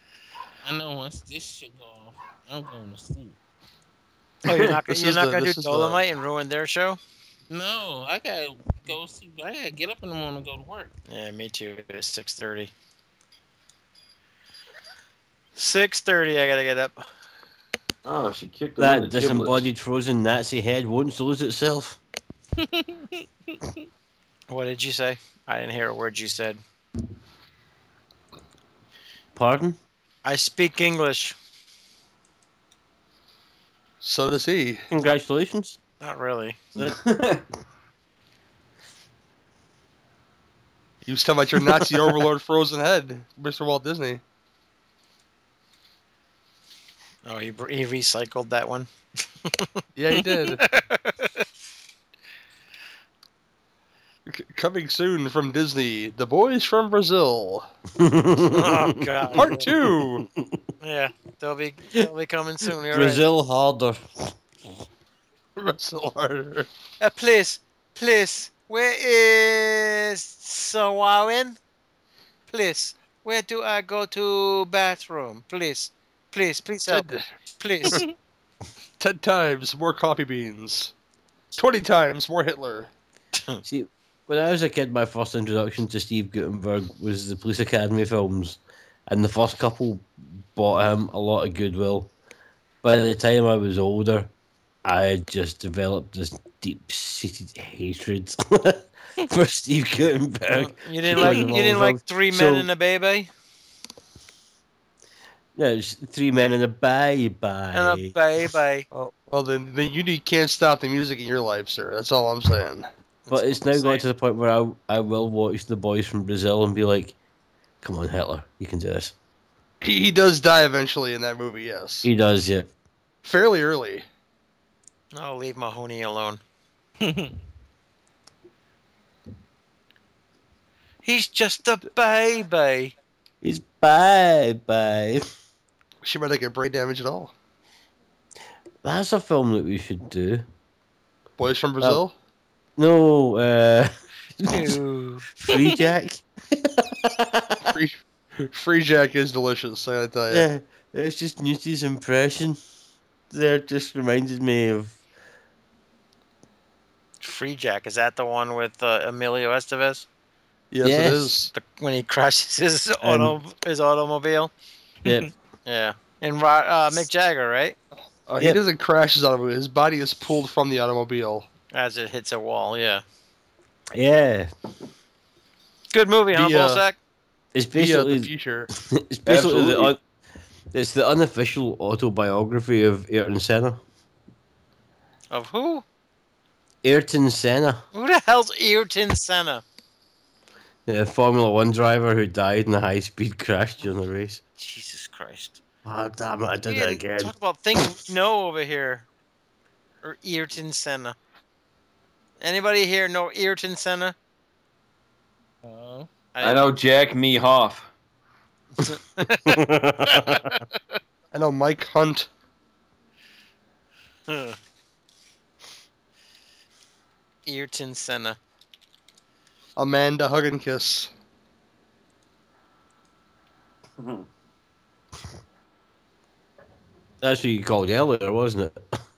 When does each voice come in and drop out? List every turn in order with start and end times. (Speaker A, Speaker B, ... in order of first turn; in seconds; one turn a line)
Speaker A: 0.6-3.4
Speaker B: 4.5-7.0
Speaker C: 4.9-6.0
Speaker A: 7.5-10.9
Speaker B: 11.1-12.7
Speaker B: 15.6-17.1
Speaker D: 18.0-19.6
Speaker E: 18.8-22.0
Speaker A: 22.6-23.1
Speaker B: 24.5-26.6
Speaker E: 29.3-29.8
Speaker B: 30.2-31.4
Speaker C: 34.0-34.8
Speaker E: 34.9-35.8
Speaker B: 36.0-36.7
Speaker D: 36.8-37.4
Speaker C: 41.0-44.2
Speaker B: 47.2-48.9
Speaker C: 50.0-50.6
Speaker B: 50.5-51.4
Speaker C: 54.3-57.7
Speaker E: 58.0-59.6
Speaker B: 58.5-59.6
Speaker C: 59.3-60.2
Speaker B: 60.8-63.2
Speaker E: 62.9-64.3
Speaker C: 65.6-66.7
Speaker B: 67.0-71.6
Speaker B: 72.5-78.0
Speaker C: 76.9-77.2
Speaker C: 79.0-80.9
Speaker C: 81.5-82.9
Speaker E: 83.7-92.1
Speaker E: 92.8-94.3
Speaker E: 94.8-102.7
Speaker B: 100.5-103.3
Speaker E: 105.5-108.1
Speaker B: 107.7-108.8
Speaker C: 108.9-112.9
Speaker B: 113.2-114.0
Speaker E: 113.3-117.1
Speaker E: 117.8-119.1
Speaker C: 119.8-122.1
Speaker E: 122.0-122.7
Speaker C: 123.2-124.0
Speaker B: 125.1-126.4
Speaker A: 127.0-127.3
Speaker B: 131.0-132.9
Speaker E: 133.4-135.3
Speaker C: 136.0-137.3
Speaker E: 138.8-140.4
Speaker C: 141.4-142.1
Speaker E: 142.8-144.8
Speaker B: 144.5-145.3
Speaker E: 145.3-147.7
Speaker C: 147.7-150.4
Speaker E: 150.3-152.6
Speaker E: 153.3-154.9
Speaker B: 157.2-160.1
Speaker C: 160.7-161.5
Speaker E: 160.8-161.3
Speaker B: 161.5-164.5
Speaker E: 163.0-163.3
Speaker E: 165.0-165.3
Speaker B: 165.7-167.8
Speaker C: 168.3-171.5
Speaker B: 171.7-173.0
Speaker E: 173.9-174.5
Speaker B: 175.9-177.0
Speaker C: 176.3-176.8
Speaker E: 177.5-180.0
Speaker C: 177.7-178.7
Speaker D: 179.2-179.9
Speaker E: 180.7-183.8
Speaker B: 185.3-185.8
Speaker E: 186.8-187.8
Speaker B: 187.9-189.6
Speaker E: 190.9-194.4
Speaker B: 194.6-195.6
Speaker E: 195.8-197.3
Speaker B: 196.7-199.1
Speaker B: 200.0-201.2
Speaker B: 202.4-204.1
Speaker A: 205.6-206.1
Speaker B: 206.3-206.7
Speaker D: 206.4-207.9
Speaker B: 208.8-210.6
Speaker E: 209.5-210.5
Speaker C: 211.3-212.3
Speaker B: 214.3-214.6
Speaker B: 217.4-218.4
Speaker C: 219.8-221.1
Speaker D: 224.0-224.2
Speaker E: 227.2-228.8